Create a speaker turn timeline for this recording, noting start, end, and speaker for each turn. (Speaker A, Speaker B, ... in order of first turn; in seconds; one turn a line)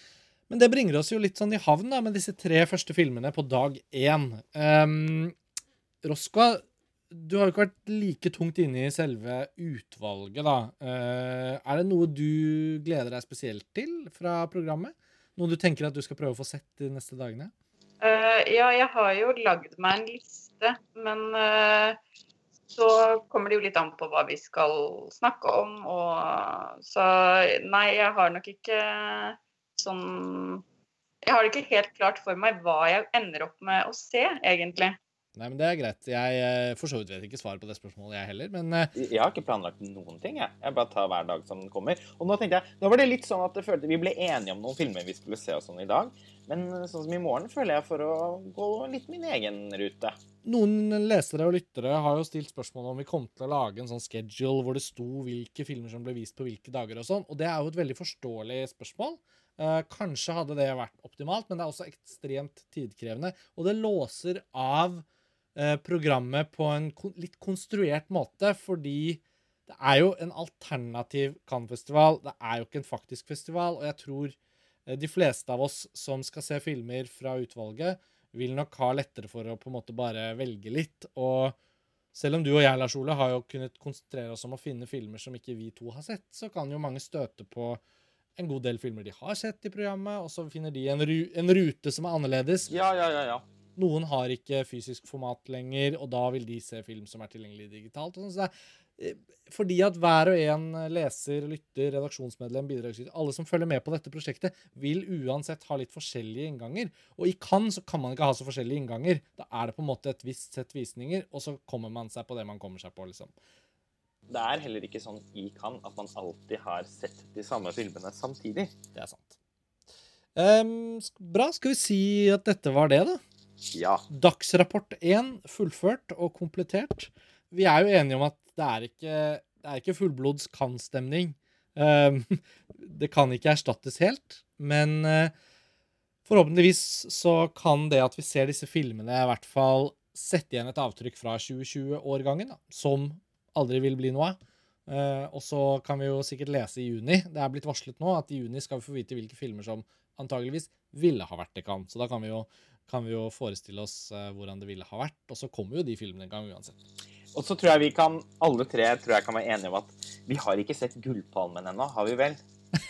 Speaker A: 0.5-5.3
Speaker A: 6.0-17.5
Speaker B: 18.0-22.0
Speaker B: 22.7-30.6
Speaker B: 31.2-35.0
Speaker A: 35.4-38.9
Speaker C: 38.9-50.2
Speaker A: 50.4-74.3
Speaker A: 74.9-81.5
Speaker A: 82.1-87.8
Speaker A: 88.4-92.7
Speaker C: 92.7-93.4
Speaker A: 93.8-113.3
Speaker C: 114.3-118.7
Speaker A: 118.9-119.4
Speaker A: 120.3-123.2
Speaker C: 123.7-124.0
Speaker A: 124.1-135.3
Speaker A: 136.3-156.8
Speaker C: 157.3-162.4